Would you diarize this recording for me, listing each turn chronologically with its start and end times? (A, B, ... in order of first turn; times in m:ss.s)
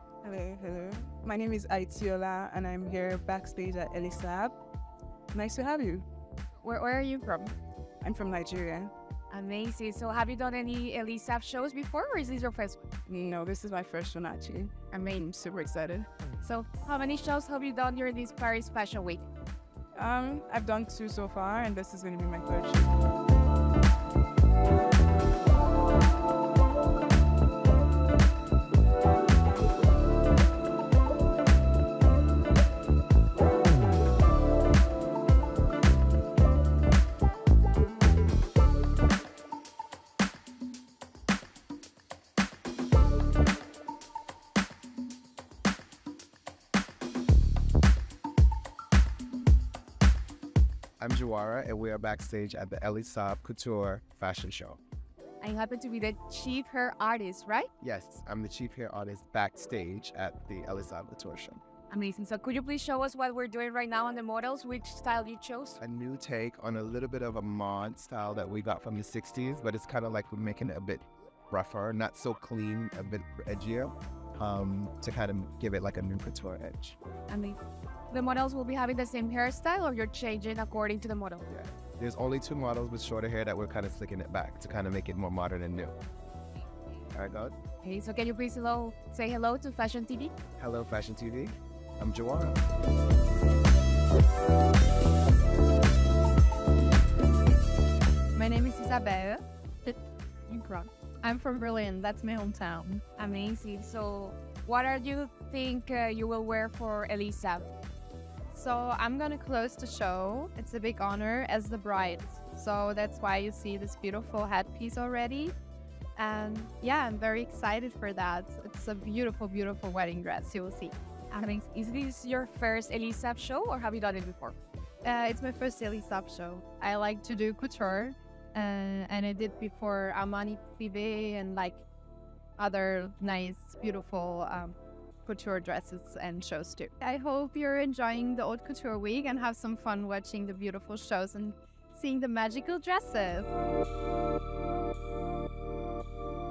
0:00.2-0:04.6 A
0:05.3-0:06.0 A
0:06.6-0:07.6 B
0:08.0-0:08.9 A
0:09.3-0:12.8 B
0:13.1-0:16.1 A
0:16.4-0:19.2 B
0:19.9-0:22.9 A
0:51.0-0:54.8 C
0:55.4-0:57.7 B
0:57.8-1:01.6 C
1:01.9-1:05.8 B
1:05.8-1:17.0 C
1:17.3-1:17.6 B
1:18.1-1:21.4 B
1:21.5-1:26.0 C
1:27.1-1:27.6 C
1:27.8-1:30.3 B
1:30.6-1:32.6 C
1:38.3-1:40.0 D
1:40.5-1:43.0 D
1:43.2-1:47.7 B
1:48.5-1:55.6 D
1:56.2-2:01.0 D
2:01.3-2:04.6 B
2:05.0-2:11.8 D
2:12.6-2:23.5 D